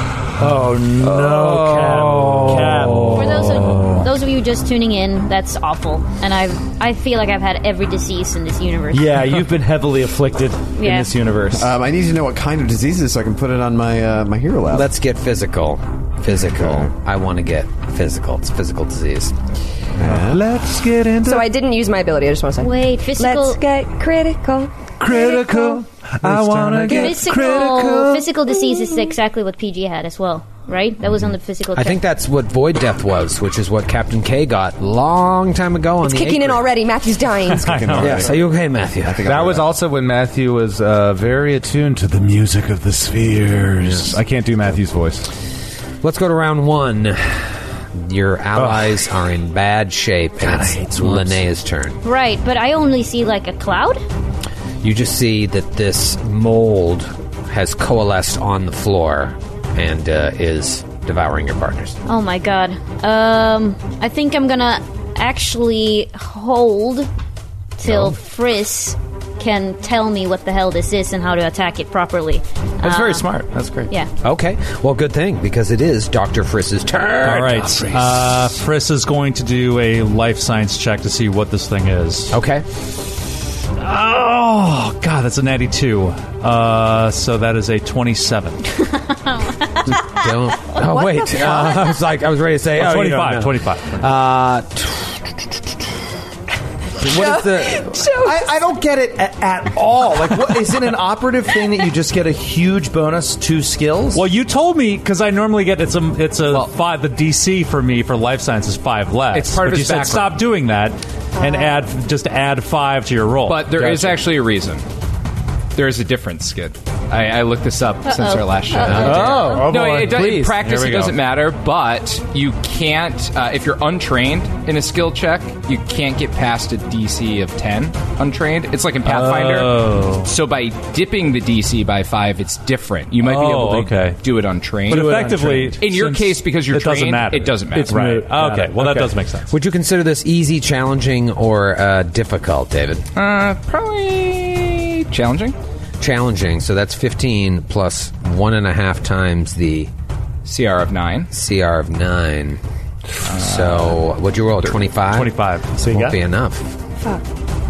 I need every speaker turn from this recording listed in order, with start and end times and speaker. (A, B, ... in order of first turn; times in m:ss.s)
0:00.4-0:03.5 A
0:00.4-0:03.8 B
0:03.1-0:09.2 C
0:08.9-0:11.7 A
0:10.8-0:11.1 C
0:11.6-0:14.9 D
0:14.7-0:19.3 E
0:16.5-0:16.9 D
0:20.0-0:20.4 D
0:20.0-0:21.5 B
0:21.2-0:25.8 F
0:22.6-0:23.6 C
0:25.0-0:28.3 B
0:26.8-0:27.2 F
0:26.9-0:32.0 C
0:31.7-0:36.6 E
0:36.0-0:38.0 F
0:37.6-0:39.7 D
0:37.6-0:38.3 G
0:38.0-0:39.3 E
0:39.2-0:45.3 B
0:46.0-0:52.0 E
0:48.6-0:48.9 B
0:50.4-0:51.4 A
0:52.0-0:54.0 C
0:54.8-1:02.0 E
1:02.0-1:07.1 C
1:07.8-1:13.3 C
1:07.8-1:08.2 E
1:12.8-1:13.9 A
1:14.2-1:18.0 E
1:17.2-1:22.3 G
1:22.3-1:22.6 E
1:23.8-1:28.6 G
1:28.8-1:30.8 C
1:29.9-1:35.2 E
1:30.8-1:32.0 F
1:32.8-1:34.0 G
1:37.0-1:38.1 E
1:37.0-1:38.4 F
1:38.2-1:44.2 A
1:44.1-1:54.1 G
1:49.3-1:50.4 H
1:51.4-1:51.8 F
1:53.5-1:54.8 H
1:55.7-2:18.3 H
1:58.0-1:59.5 C
1:58.8-1:59.6 E
1:58.8-2:00.6 A
2:00.2-2:01.1 G
2:09.0-2:10.3 G
2:13.2-2:14.2 G
2:14.9-2:19.5 G
2:14.9-2:15.9 A
2:17.8-2:19.2 A
2:19.5-2:23.1 E
2:23.1-2:25.6 H
2:26.0-2:29.9 E
2:30.4-2:31.3 H
2:31.3-2:32.6 E
2:33.3-2:36.7 E
2:33.3-2:33.8 H
2:35.1-2:35.8 G
2:35.8-2:36.2 A